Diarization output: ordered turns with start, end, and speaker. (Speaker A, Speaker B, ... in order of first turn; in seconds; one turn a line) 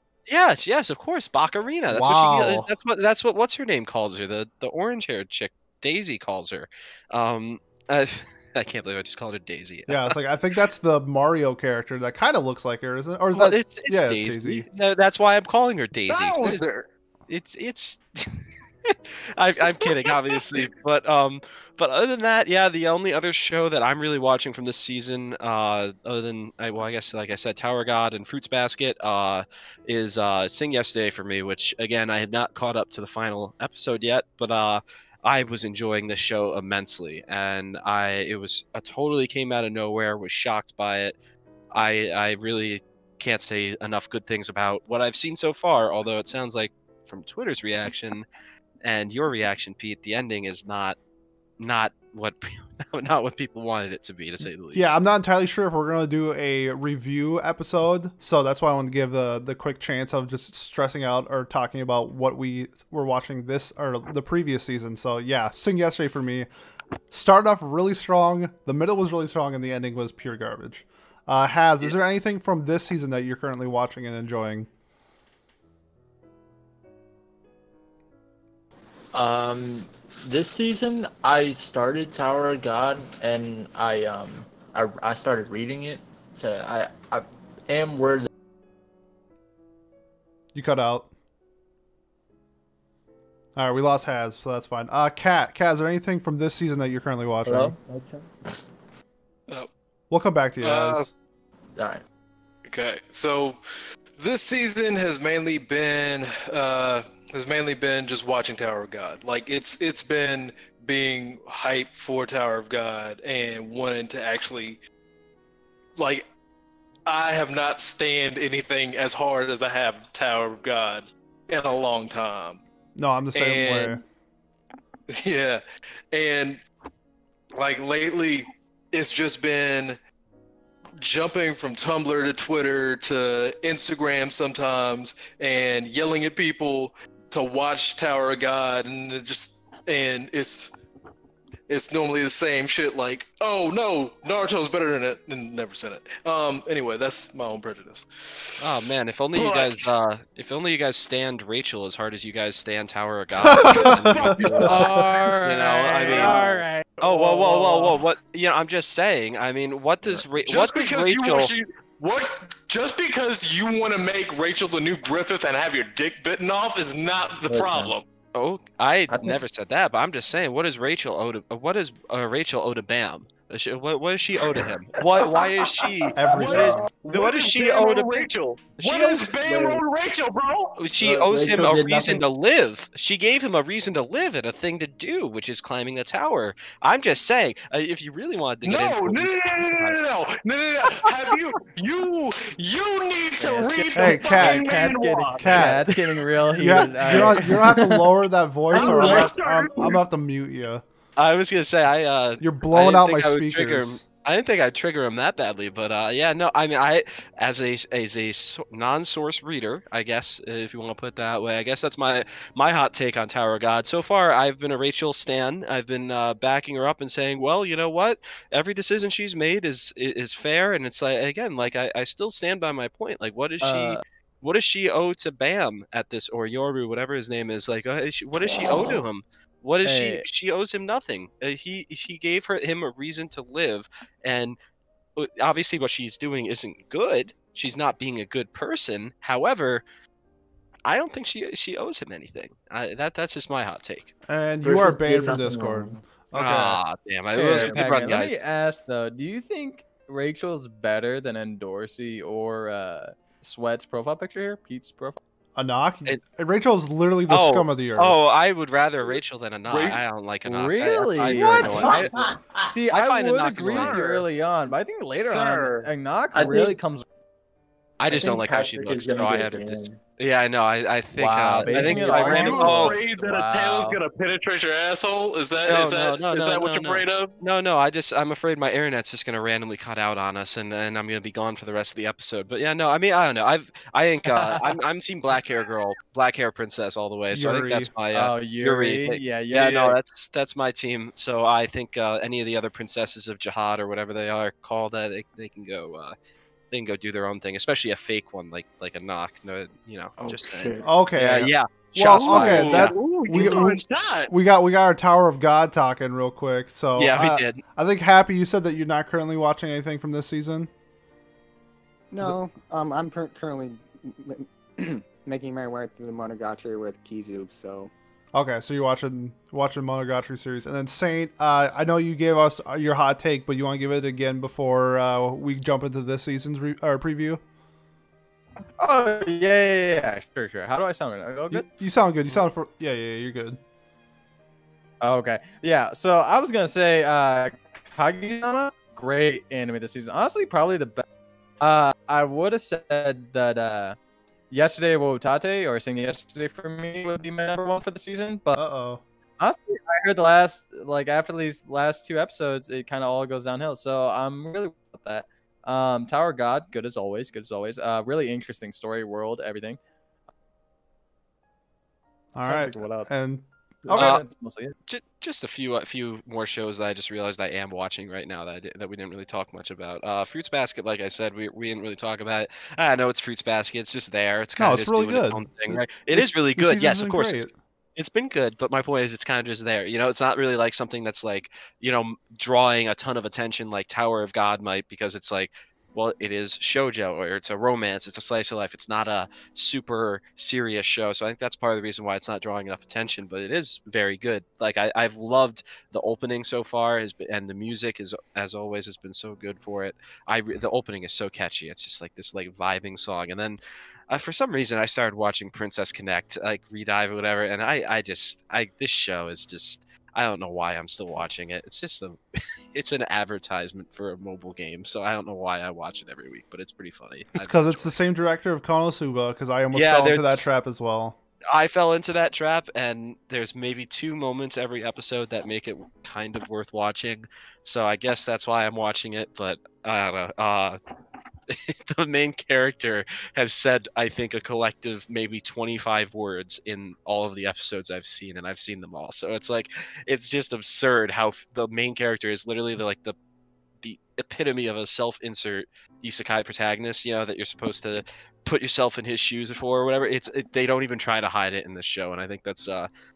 Speaker A: 0.3-10.2
Speaker B: 1.9-2.7
Speaker B: 9.9-14.7
Speaker A: 13.3-16.6
Speaker C: 16.1-16.9
Speaker A: 17.3-41.1
Speaker A: 41.7-48.3
Speaker A: 48.8-51.0
Speaker A: 51.6-55.0
Speaker B: 54.7-66.5
Speaker B: 67.1-74.7
Speaker D: 79.1-88.3
Speaker B: 90.5-91.1
Speaker B: 93.6-97.8
Speaker D: 97.5-98.7
Speaker B: 100.1-101.1
Speaker C: 100.6-101.1
Speaker D: 101.8-102.0
Speaker C: 102.7-103.6
Speaker C: 104.2-114.8
Speaker C: 116.0-116.3
Speaker C: 117.1-122.6
Speaker B: 123.0-124.0
Speaker C: 123.3-124.0
Speaker C: 125.1-126.6
Speaker C: 127.5-130.0
Speaker C: 131.0-140.8
Speaker C: 141.7-148.7
Speaker A: 148.6-161.5
Speaker C: 149.3-149.9
Speaker B: 153.4-154.5
Speaker C: 153.6-155.0
Speaker E: 154.6-158.0
Speaker C: 160.4-168.0
Speaker D: 167.5-167.9
Speaker A: 168.3-179.3
Speaker D: 169.1-169.4
Speaker D: 174.6-175.5
Speaker B: 176.2-176.9
Speaker D: 176.3-176.9
Speaker C: 176.5-180.8
Speaker D: 179.4-179.8
Speaker A: 180.8-190.0
Speaker D: 181.0-182.2
Speaker C: 188.7-195.9
Speaker E: 193.4-198.1
Speaker B: 193.9-194.7
Speaker B: 195.4-195.8
Speaker B: 196.5-200.8
Speaker A: 197.1-197.4
Speaker C: 198.7-200.0
Speaker E: 198.8-199.1
Speaker A: 201.2-234.6
Speaker B: 202.4-204.0
Speaker E: 223.6-224.0
Speaker D: 228.4-229.0
Speaker E: 229.8-230.2
Speaker A: 235.2-239.8
Speaker A: 240.8-244.1
Speaker B: 244.3-246.8
Speaker D: 244.6-246.0
Speaker A: 246.3-248.4
Speaker E: 247.3-255.2
Speaker B: 255.6-258.2
Speaker A: 257.3-262.2
Speaker C: 259.7-260.0
Speaker E: 260.4-262.0
Speaker D: 261.2-262.7
Speaker B: 261.6-261.9
Speaker E: 262.7-267.0
Speaker A: 262.9-264.0
Speaker C: 263.6-264.3
Speaker D: 265.1-266.7
Speaker A: 268.0-273.0
Speaker D: 268.1-270.0
Speaker E: 271.2-274.0
Speaker D: 271.6-272.6
Speaker C: 271.9-277.4
Speaker A: 275.7-296.2
Speaker B: 287.3-287.9
Speaker E: 288.1-290.0
Speaker A: 296.7-303.6
Speaker D: 300.2-300.9
Speaker B: 300.8-310.7
Speaker C: 302.1-304.6
Speaker A: 307.0-307.6
Speaker F: 312.1-317.9
Speaker B: 318.3-327.4
Speaker E: 328.8-331.7
Speaker B: 331.5-333.6
Speaker E: 335.0-341.0
Speaker E: 341.6-344.0
Speaker E: 344.5-348.6
Speaker B: 348.5-349.0
Speaker E: 349.4-359.8
Speaker B: 362.4-364.2
Speaker E: 362.4-363.1
Speaker E: 363.9-364.8
Speaker A: 363.9-364.3
Speaker A: 364.9-412.2
Speaker B: 374.6-377.5
Speaker A: 412.7-417.9
Speaker B: 417.4-421.2
Speaker A: 419.7-420.5
Speaker A: 421.5-430.8
Speaker A: 431.5-443.2
Speaker A: 443.8-452.9